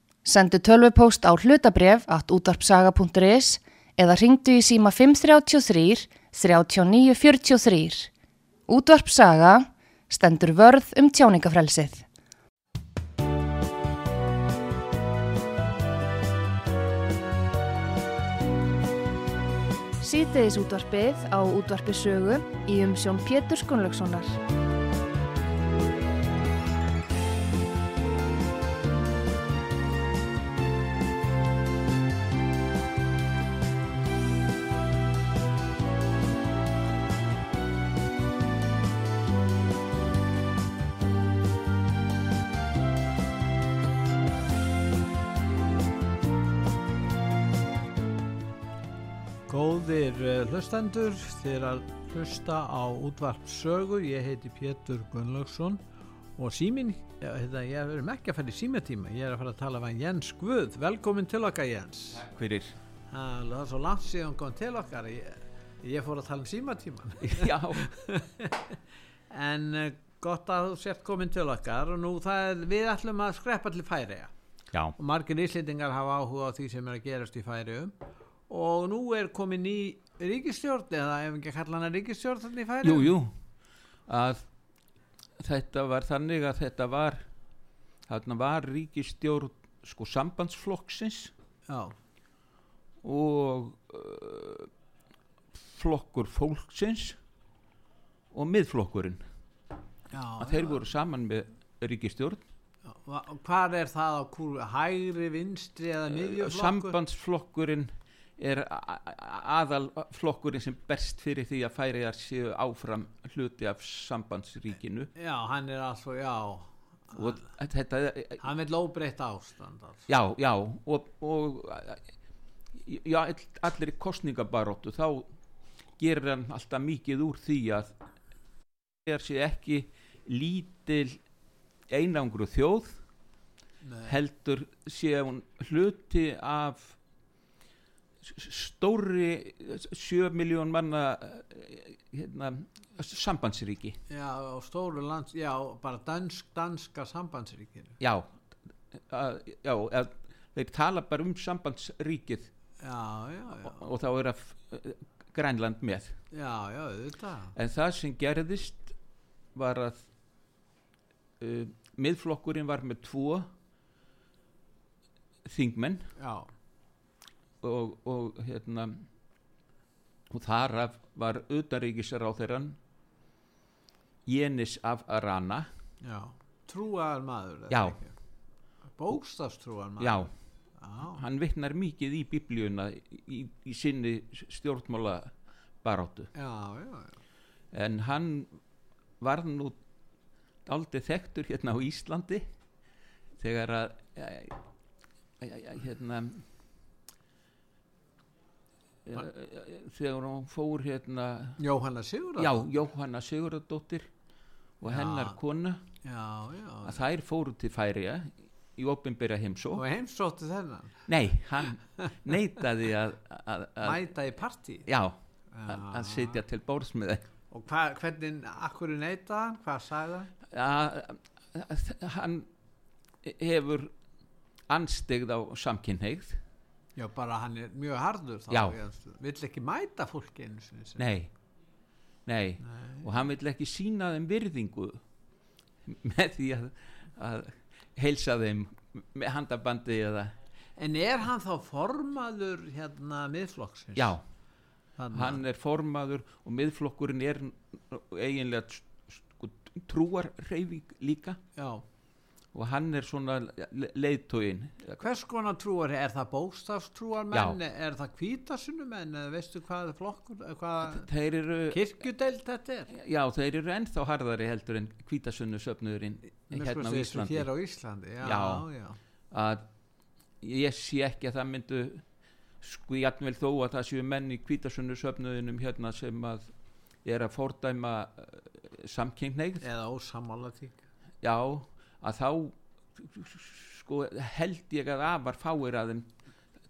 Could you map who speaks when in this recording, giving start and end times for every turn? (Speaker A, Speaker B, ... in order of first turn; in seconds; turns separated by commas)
Speaker A: 0.2-8.1, Speaker A: 8.7-12.0, Speaker A: 20.0-24.4, Speaker B: 49.5-55.8, Speaker B: 56.4-62.2, Speaker C: 62.2-62.7, Speaker B: 63.1-68.8, Speaker C: 67.2-67.8, Speaker B: 69.3-74.3, Speaker B: 75.0-77.9, Speaker B: 78.5-83.1, Speaker C: 82.8-83.3, Speaker C: 84.1-84.5, Speaker C: 85.4-87.2, Speaker C: 88.1-91.3, Speaker B: 91.7-91.9, Speaker C: 93.0-94.7, Speaker C: 95.5-97.2, Speaker C: 98.3-99.2, Speaker B: 100.1-100.8, Speaker C: 100.4-102.4, Speaker B: 102.8-107.0, Speaker C: 106.1-115.1, Speaker B: 115.1-117.4, Speaker C: 117.1-118.4, Speaker B: 118.4-120.1, Speaker C: 120.1-122.0, Speaker C: 122.7-125.3, Speaker C: 126.0-127.9, Speaker C: 129.0-131.2, Speaker C: 131.9-133.0, Speaker B: 133.8-134.1, Speaker C: 134.1-137.0, Speaker C: 138.2-144.0, Speaker B: 144.1-148.0, Speaker C: 148.0-148.3, Speaker C: 148.9-152.5, Speaker B: 152.8-153.8, Speaker C: 153.6-156.2, Speaker B: 156.3-157.5, Speaker C: 157.5-158.9, Speaker C: 159.5-160.1, Speaker C: 161.4-163.5, Speaker C: 165.4-166.1, Speaker B: 166.2-166.5, Speaker C: 167.6-169.1, Speaker C: 170.3-172.8, Speaker C: 174.2-175.7, Speaker B: 176.0-178.1, Speaker C: 177.7-178.0, Speaker B: 178.9-181.2, Speaker C: 180.0-180.3, Speaker C: 181.1-186.3, Speaker B: 186.3-187.2, Speaker C: 187.7-188.6, Speaker C: 189.2-189.8, Speaker C: 190.7-192.4, Speaker C: 193.4-194.6, Speaker C: 195.4-196.4, Speaker C: 199.1-201.6, Speaker B: 201.6-202.7, Speaker C: 202.4-204.1, Speaker C: 204.8-205.8, Speaker B: 204.8-205.4, Speaker B: 206.0-207.0, Speaker C: 206.8-209.8, Speaker B: 209.7-211.0, Speaker C: 211.1-214.1, Speaker B: 213.8-214.9, Speaker C: 214.8-217.3, Speaker B: 215.5-216.4, Speaker B: 217.5-220.3, Speaker C: 220.5-222.5, Speaker C: 223.2-223.9, Speaker C: 224.7-226.4, Speaker B: 226.9-231.1, Speaker C: 228.5-228.8, Speaker C: 231.0-231.3, Speaker C: 232.2-235.0, Speaker B: 232.6-233.1, Speaker C: 235.8-240.3, Speaker B: 240.8-244.2, Speaker C: 243.9-244.2, Speaker B: 245.0-245.4, Speaker C: 245.1-251.4, Speaker B: 251.5-251.8, Speaker C: 252.5-255.0, Speaker B: 255.0-261.1, Speaker C: 257.3-257.6, Speaker C: 260.8-261.8, Speaker B: 261.7-262.9, Speaker C: 262.9-267.5, Speaker B: 266.3-269.0, Speaker C: 268.2-268.6, Speaker C: 269.3-269.7, Speaker C: 270.4-272.0, Speaker C: 272.6-276.5, Speaker C: 277.0-279.6, Speaker B: 279.6-280.8, Speaker C: 281.2-286.1